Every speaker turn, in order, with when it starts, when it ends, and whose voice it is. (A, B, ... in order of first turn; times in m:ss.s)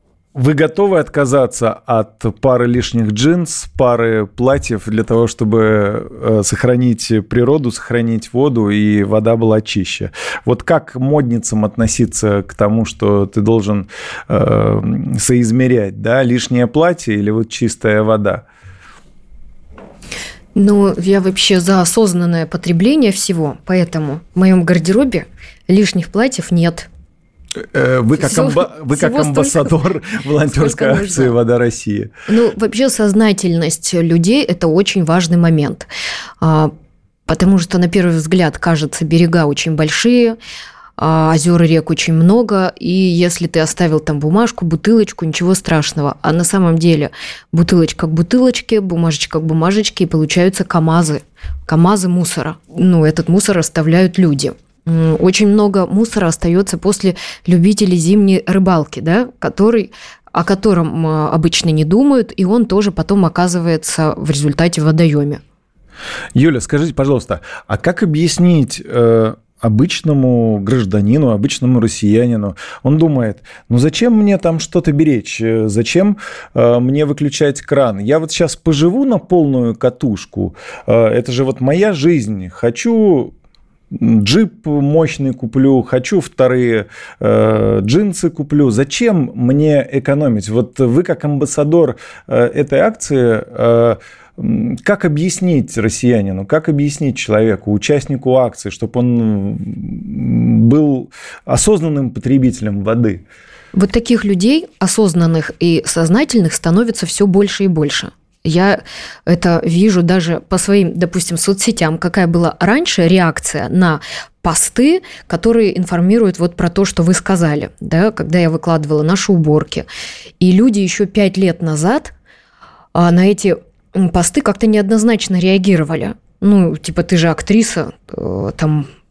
0:00.3-0:18.4 A
0:20.6-0:26.9 B
0:27.6-0:32.1 A
0:28.2-0:29.8 B
0:30.4-0:31.4 B
0:32.3-0:35.9 B
0:36.4-0:36.7 B
0:37.3-0:40.4 B
0:41.0-1:05.4 B
1:06.4-1:23.3 A
1:23.9-1:43.2 A
1:43.7-1:59.9 B
2:00.4-2:02.1 B
2:02.9-2:08.9 B